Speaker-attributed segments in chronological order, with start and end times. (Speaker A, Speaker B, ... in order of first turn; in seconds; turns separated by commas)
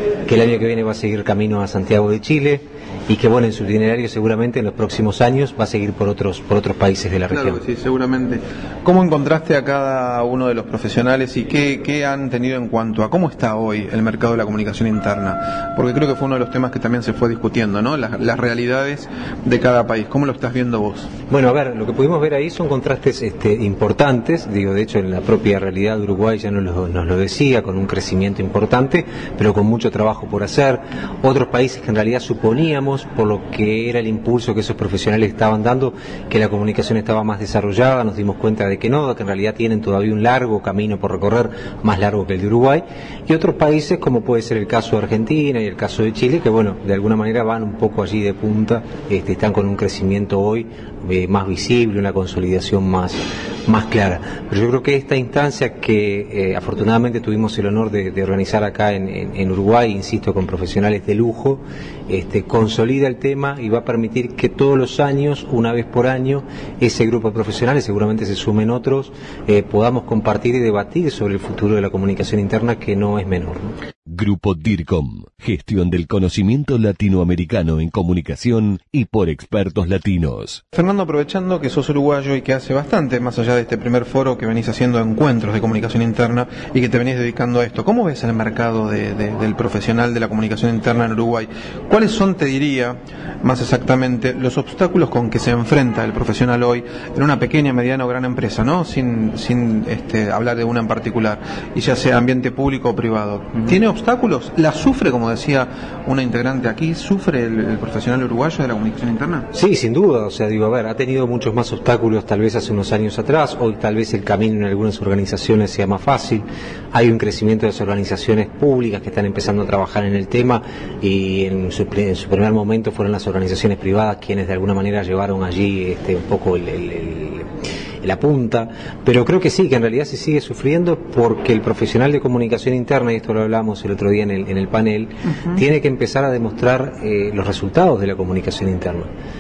Speaker A: 0.3-7.6, Speaker B: 7.3-21.1, Speaker A: 21.3-73.7, Speaker C: 74.1-80.6, Speaker B: 80.7-109.5, Speaker A: 109.5-127.5, Speaker A: 128.0-139.1